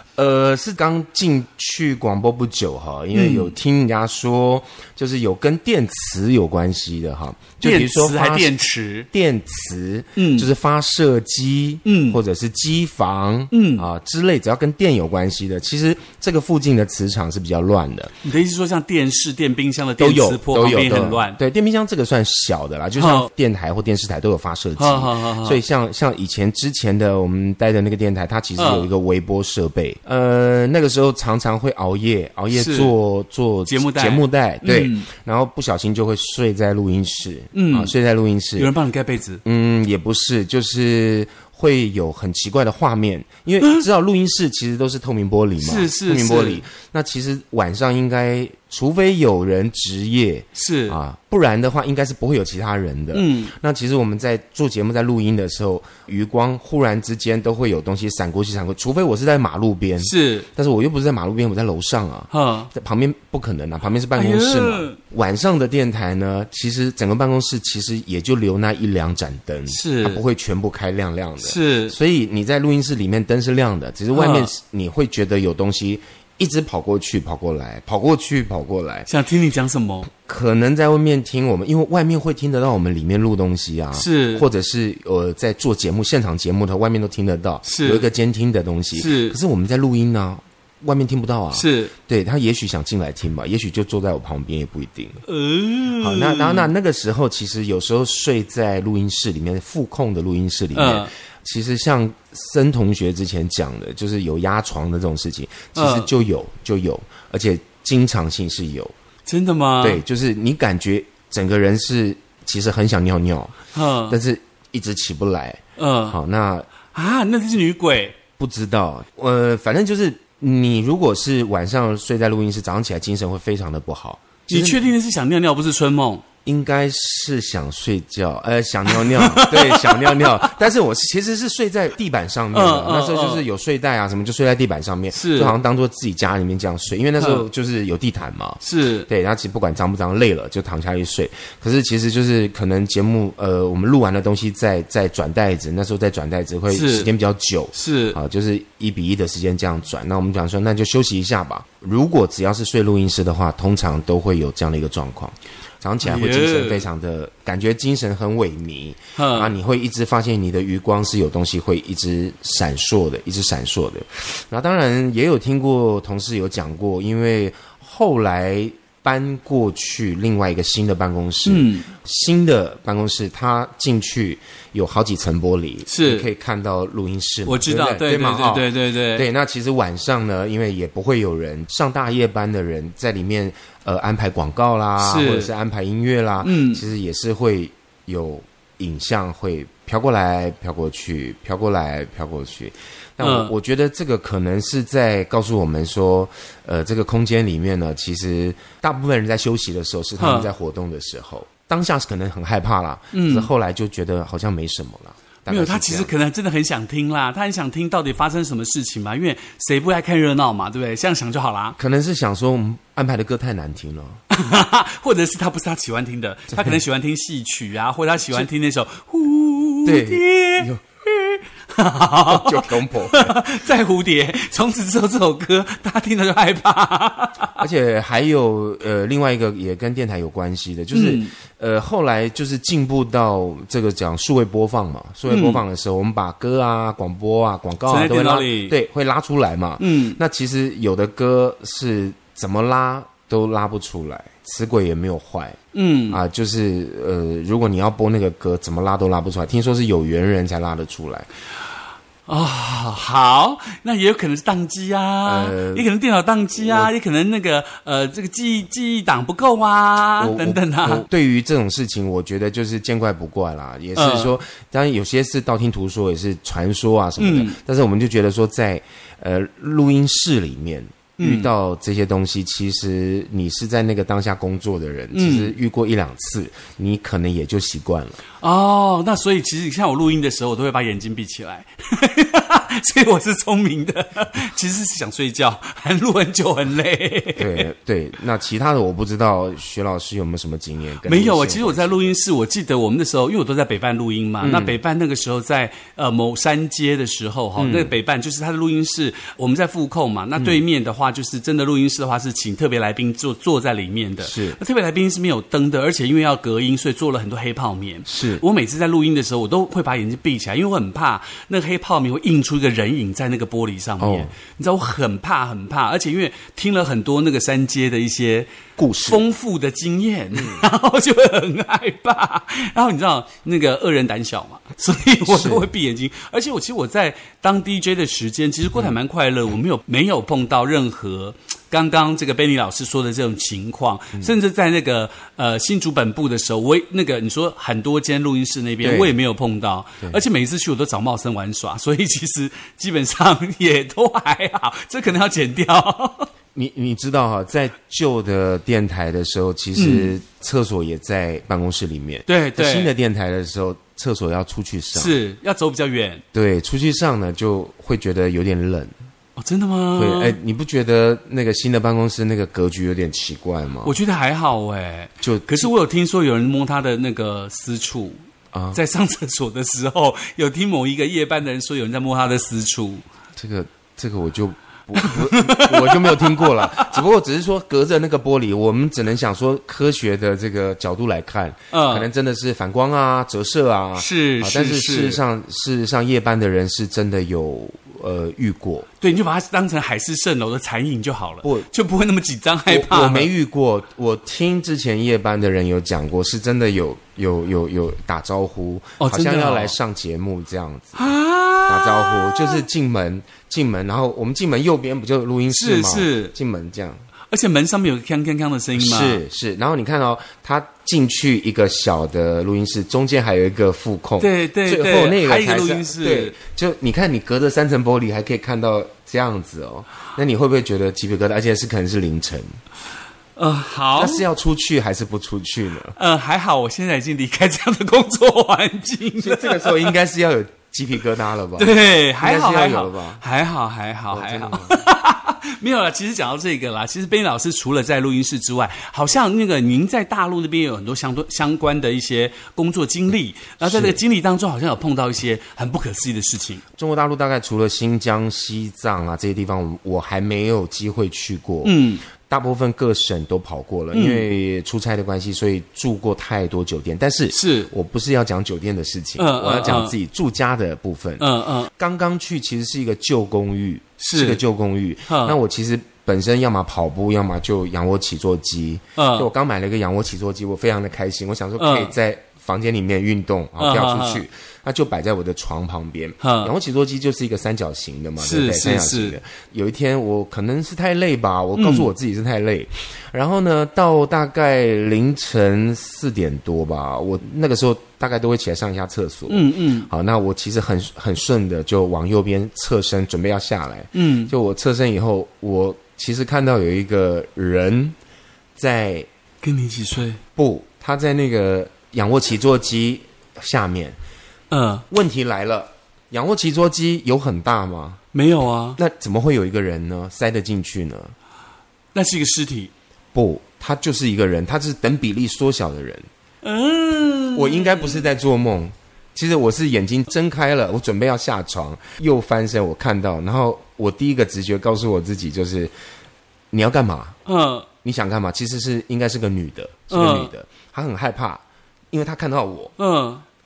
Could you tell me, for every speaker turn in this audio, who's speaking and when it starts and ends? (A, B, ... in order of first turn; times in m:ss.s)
0:00.2-0:08.5 A
0:03.1-0:03.5 B
0:07.6-0:09.1 B
0:09.1-0:18.1 A
0:10.2-0:10.5 B
0:11.8-0:12.2 B
0:13.5-0:13.8 B
0:18.2-0:21.4 B
0:20.0-0:38.7 A
0:23.0-0:23.3 B
0:24.8-0:25.6 B
0:28.6-0:28.9 B
0:32.5-0:32.9 B
0:33.6-0:35.1 B
0:37.5-0:37.9 B
0:38.6-0:39.4 B
0:39.4-1:19.1 A
0:45.6-0:46.6 B
0:50.5-0:51.0 B
0:53.1-0:53.5 B
1:00.0-1:00.5 B
1:02.3-1:02.7 B
1:04.1-1:05.0 B
1:09.7-1:10.2 B
1:11.4-1:12.0 B
1:14.1-1:14.5 B
1:19.1-1:20.1 B
1:20.2-1:35.2 A
1:23.9-1:24.5 B
1:27.6-1:28.0 B
1:29.0-1:29.4 B
1:31.5-1:31.9 B
1:35.2-1:36.7 B
1:36.0-1:48.9 A
1:40.7-1:41.1 B
1:45.7-1:46.1 B
1:49.2-1:50.0 B
1:49.8-1:53.5 A
1:53.7-1:54.2 B
1:54.1-1:56.7 A
1:55.8-1:56.2 B
1:56.9-1:58.1 B
1:58.4-2:04.8 A
2:04.5-2:06.2 B
2:06.4-3:26.1 A
2:09.1-2:09.8 B
2:12.5-2:13.4 B
2:15.1-2:15.5 B
2:17.2-2:17.4 B
2:18.6-2:19.1 B
2:26.7-2:27.1 B
2:27.7-2:28.2 B
2:36.0-2:36.8 B
2:39.2-2:39.5 B
2:51.4-2:51.9 B
2:55.9-2:56.3 B
2:57.4-2:59.2 B
3:05.0-3:05.5 B
3:06.4-3:06.8 B
3:13.2-3:13.5 B
3:20.2-3:20.5 B
3:23.1-3:23.5 B
3:25.5-3:31.8 B
3:31.8-3:34.2 A
3:34.3-3:47.6 B
3:36.5-3:36.8 A
3:39.8-3:40.8 A
3:42.2-3:43.4 A
3:47.6-4:05.6 A
3:50.9-3:51.3 B
3:55.3-3:55.6 B
3:57.9-3:58.8 B
3:59.8-4:00.2 B
4:05.7-4:06.2 B
4:06.1-4:11.3 A
4:12.3-4:21.1 B
4:15.2-4:15.9 A
4:16.6-4:16.9 A
4:20.2-4:38.2 A
4:24.0-4:24.3 B
4:27.2-4:27.6 B
4:31.2-4:31.5 B
4:35.1-4:35.6 B
4:38.4-4:47.6 B
4:47.4-4:52.2 A
4:51.0-5:46.3 B
4:54.4-4:54.8 A
4:57.6-4:57.9 A
5:00.4-5:00.6 A
5:04.2-5:04.6 A
5:08.0-5:08.4 A
5:14.0-5:14.3 A
5:18.8-5:19.2 A
5:20.3-5:20.6 A
5:25.2-5:25.7 A
5:38.8-5:39.1 A
5:46.5-5:55.1 A
5:49.7-5:50.1 B
5:52.2-5:52.9 B
5:54.9-5:56.2 B
5:56.3-5:58.9 A
5:59.4-6:00.4 B
5:59.9-6:03.9 A
6:03.8-6:13.0 B
6:05.2-6:05.7 A
6:08.5-6:08.8 A
6:13.4-6:28.9 A
6:15.0-6:16.8 B
6:21.7-6:22.1 B
6:24.0-6:25.2 B
6:29.0-6:33.3 B
6:31.4-6:31.7 A
6:32.7-6:41.0 A
6:39.0-6:39.7 B
6:41.0-6:42.6 B
6:41.7-6:47.0 A
6:45.5-6:46.3 B
6:47.3-6:49.2 B
6:48.8-7:02.6 A
6:54.2-6:56.4 B
7:03.4-7:04.2 B
7:04.0-7:06.0 A
7:06.0-7:09.9 B
7:09.2-7:13.2 A
7:11.6-7:26.6 B
7:14.1-7:14.8 A
7:23.6-7:24.0 A
7:26.8-8:17.9 A
7:31.6-7:32.0 B
7:33.9-7:34.3 B
7:37.3-7:37.7 B
7:39.2-7:39.9 B
7:41.2-7:41.7 B
7:44.0-7:44.4 B
7:45.1-7:45.4 B
7:49.0-7:49.3 B
7:51.6-7:51.9 B
7:53.6-7:54.2 B
7:56.2-7:56.5 B
7:58.2-7:59.2 B
8:01.6-8:01.9 B
8:09.3-8:09.9 B
8:13.9-8:14.3 B
8:18.6-8:19.1 A
8:19.4-8:20.2 B
8:20.4-8:24.0 A
8:24.5-8:24.8 B
8:24.9-8:28.0 A
8:28.1-8:28.8 B
8:28.8-8:31.1 A
8:31.9-8:32.7 B
8:33.1-8:36.1 A
8:36.4-8:38.0 B
8:37.3-8:45.7 A
8:46.5-8:47.2 A
8:47.2-8:47.7 B
8:47.8-8:52.7 A
8:49.9-8:50.3 B
8:52.8-8:53.2 B